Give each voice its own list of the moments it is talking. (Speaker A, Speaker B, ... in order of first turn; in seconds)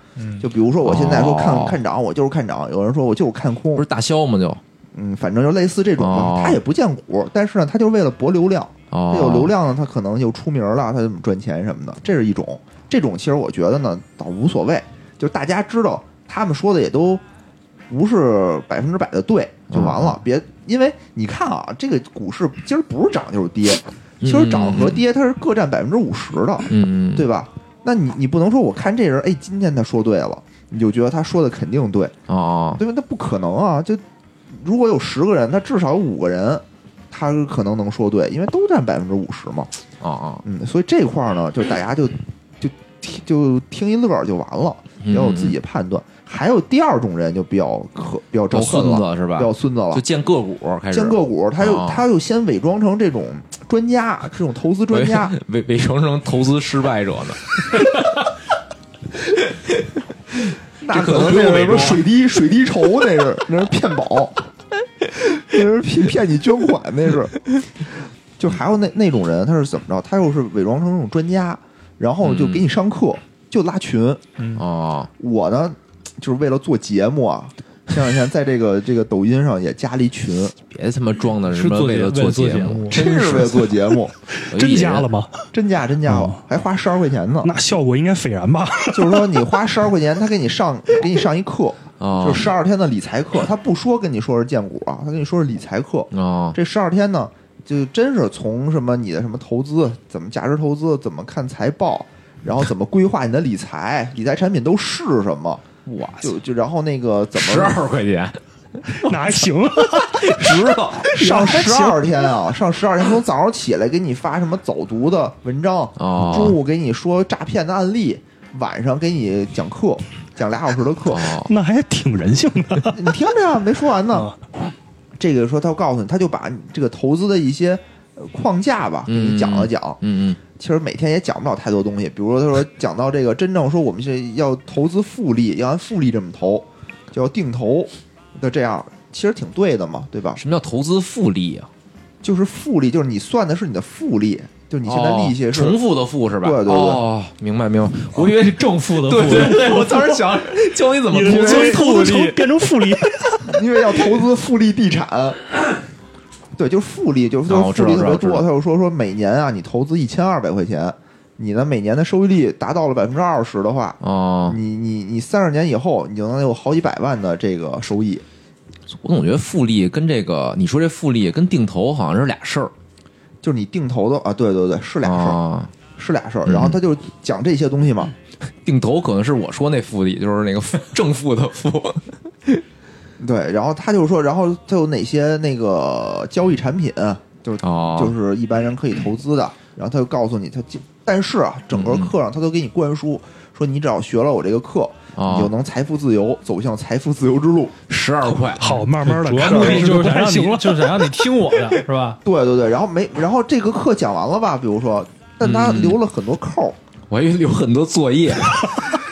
Speaker A: 0.1-0.5, 81.5-83.1, 148.1-150.5, 198.7-202.2
Speaker B: 0.4-3.8, 4.9-17.2, 17.9-32.1, 32.8-39.7, 40.4-50.0, 50.9-55.4, 60.8-64.4, 65.0-74.2, 75.2-80.5, 82.9-84.1, 85.5-87.5, 88.9-105.6, 106.2-107.8, 111.0-121.3, 122.9-124.3, 125.2-130.0, 130.5-140.4, 142.2-145.8, 146.4-147.0, 151.2-151.8, 153.4-155.5, 156.6-168.2, 173.4-175.4, 175.9-178.1, 183.2-197.7, 202.2-206.8
Speaker C: 0.8-1.8, 3.8-4.6, 6.0-6.6, 8.9-9.5, 19.7-20.2, 24.2-25.0, 26.7-27.3, 32.3-32.8, 40.0-40.4, 45.0-45.6, 48.5-52.0, 54.9-57.9, 60.9-62.0, 72.2-72.6, 74.5-75.1, 80.7-83.1, 84.5-85.1, 92.0-92.5, 96.1-96.5, 105.8-106.3, 107.3-109.2, 110.0-111.1, 116.0-116.6, 121.1-121.5, 129.1-130.4, 140.4-141.7, 144.8-152.5, 157.5-158.4, 164.0-164.6, 168.9-172.7, 175.0-175.7, 176.4-176.8, 178.6-182.6, 187.6-188.1, 191.7-192.1, 195.2-195.5, 197.9-198.8, 205.4-206.0, 207.1-208.8
Speaker D: 84.3-85.5, 86.0-86.4, 87.4-89.5, 108.9-112.3, 121.5-123.0, 151.1-153.6, 198.6-201.2